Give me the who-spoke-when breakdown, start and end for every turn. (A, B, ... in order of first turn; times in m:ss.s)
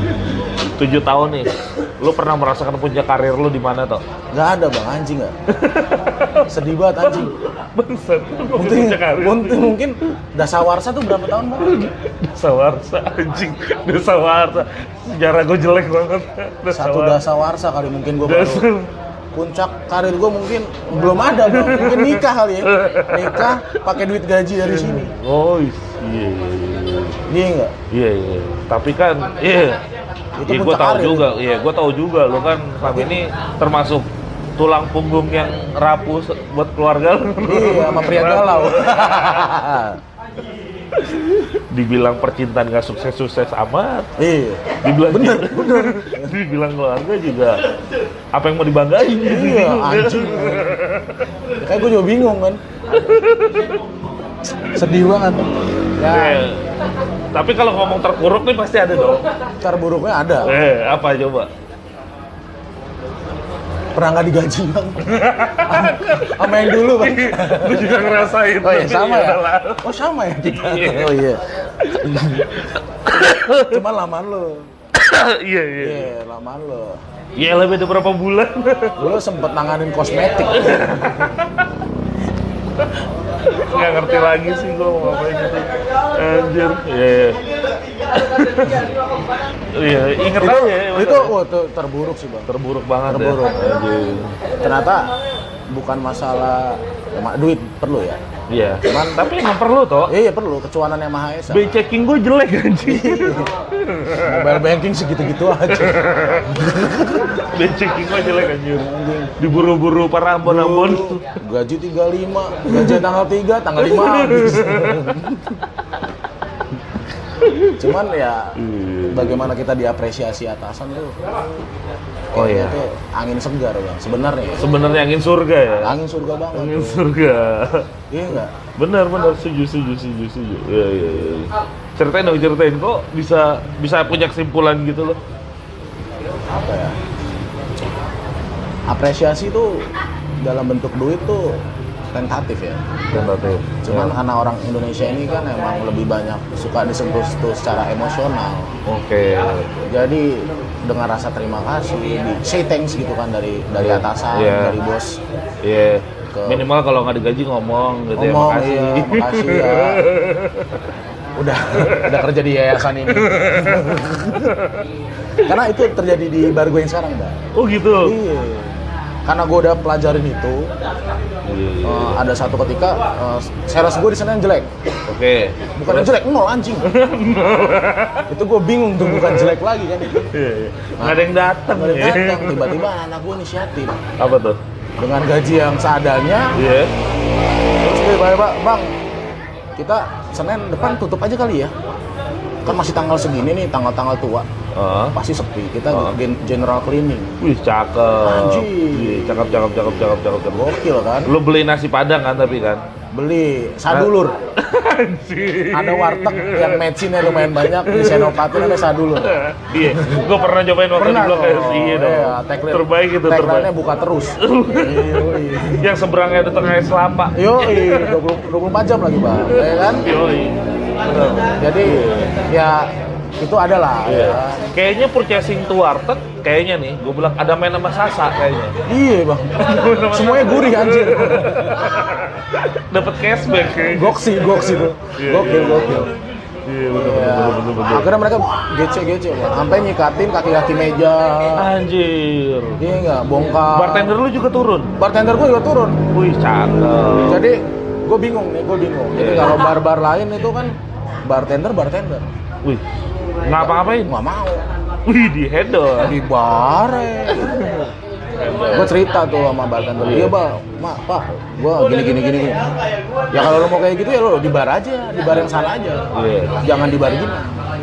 0:00.6-0:04.0 A
0:04.3-0:05.3 B
0:05.5-0:09.8 A
0:06.5-0:07.3 B
0:08.5-0:11.8 B
0:11.4-0:17.2 A
0:16.7-0:18.7 B
0:18.2-0:18.9 A
0:19.3-0:25.1 B
0:21.4-0:23.8 A
0:24.6-0:27.2 A
0:27.3-0:27.7 B
0:27.9-0:29.8 A
0:30.4-0:31.3 B
0:30.4-0:39.2 A
0:37.4-0:40.0 B
0:41.0-0:44.1 A
0:44.2-0:46.3 B
0:44.8-0:47.6 A
0:48.3-0:51.2 A
0:49.2-0:50.7 B
0:51.6-0:52.6 B
0:52.9-0:53.7 A
0:54.7-0:56.4 B
0:56.1-0:56.7 A
0:57.3-0:59.2 A
0:59.6-1:00.6 B
1:00.4-1:01.5 A
1:03.9-1:11.4 B
1:05.0-1:09.8 A
1:10.4-1:13.8 A
1:13.2-1:14.7 B
1:14.9-1:16.1 A
1:15.8-1:17.0 B
1:17.4-1:19.2 A
1:19.0-1:20.9 B
1:20.5-1:21.6 A
1:23.4-1:27.4 A
1:28.1-1:28.9 A
1:29.7-1:31.3 A
1:30.4-1:32.5 B
1:32.5-1:34.4 A
1:33.1-1:33.8 B
1:34.6-1:35.1 B
1:35.7-1:38.2 B
1:38.5-1:40.1 A
1:38.8-1:39.3 B
1:40.1-1:41.7 B
1:41.5-1:44.6 A
1:42.8-1:43.5 B
1:44.1-1:47.3 B
1:45.8-1:51.4 A
1:48.7-1:49.3 B
1:50.4-1:55.6 B
1:53.8-1:55.2 A
1:57.4-1:57.8 A
1:57.8-1:58.6 B
1:58.6-1:59.5 A
1:59.1-2:01.2 B
2:02.3-2:04.7 B
2:02.3-2:02.8 A
2:04.6-2:05.9 A
2:05.8-2:07.0 B
2:06.5-2:07.9 A
2:08.1-2:08.5 B
2:08.8-2:15.2 A
2:16.5-2:17.0 B
2:18.9-2:19.9 B
2:20.4-2:21.6 B
2:22.1-2:22.8 B
2:23.1-2:24.1 A
2:23.8-2:28.7 B
2:28.8-2:29.7 A
2:29.8-2:35.2 B
2:33.8-2:34.8 A
2:35.6-2:40.8 A
2:36.3-2:36.6 B
2:38.2-2:40.0 B
2:41.4-2:44.5 B
2:41.8-2:42.2 A
2:43.2-2:44.8 A
2:45.4-2:50.7 B
2:47.5-2:48.1 A
2:51.4-2:52.2 A
2:51.8-2:54.7 B
2:55.1-2:56.1 A
2:55.8-2:56.9 B
2:56.8-2:58.3 A
2:58.3-3:00.3 B
2:59.0-2:59.5 A
3:00.2-3:02.9 A
3:01.0-3:04.0 B
3:04.2-3:04.6 A
3:05.0-3:06.6 B
3:06.5-3:06.9 A
3:07.8-3:08.9 B
3:09.8-3:11.7 B
3:12.6-3:14.5 B
3:14.7-3:15.2 A
3:15.1-3:17.3 B
3:15.9-3:16.2 A
3:17.4-3:20.7 A
3:18.2-3:19.7 B
3:20.5-3:21.3 B
3:21.2-3:22.8 A
3:23.1-3:24.4 B
3:23.9-3:33.7 A
3:25.7-3:30.2 B
3:31.0-3:35.8 B
3:34.4-3:38.2 A
3:37.3-3:40.1 B
3:39.3-3:42.3 A
3:41.6-3:44.6 B
3:44.0-3:48.8 A
3:48.9-3:52.0 B
3:49.6-3:56.1 A
3:53.9-3:56.1 B
3:56.6-3:58.1 A
3:56.9-4:01.7 B
4:01.6-4:03.0 A
4:02.8-4:04.2 B
4:03.7-4:04.9 A
4:05.0-4:06.0 B
4:06.1-4:07.4 A
4:07.2-4:12.3 B
4:09.2-4:09.6 A
4:12.6-4:14.1 A
4:13.7-4:14.6 B
4:15.0-4:16.2 A
4:16.0-4:17.8 B
4:17.4-4:17.8 A
4:18.4-4:19.0 A
4:18.7-4:22.7 B
4:20.0-4:20.4 A
4:23.3-4:26.1 B
4:26.1-4:26.5 A
4:26.6-4:27.5 B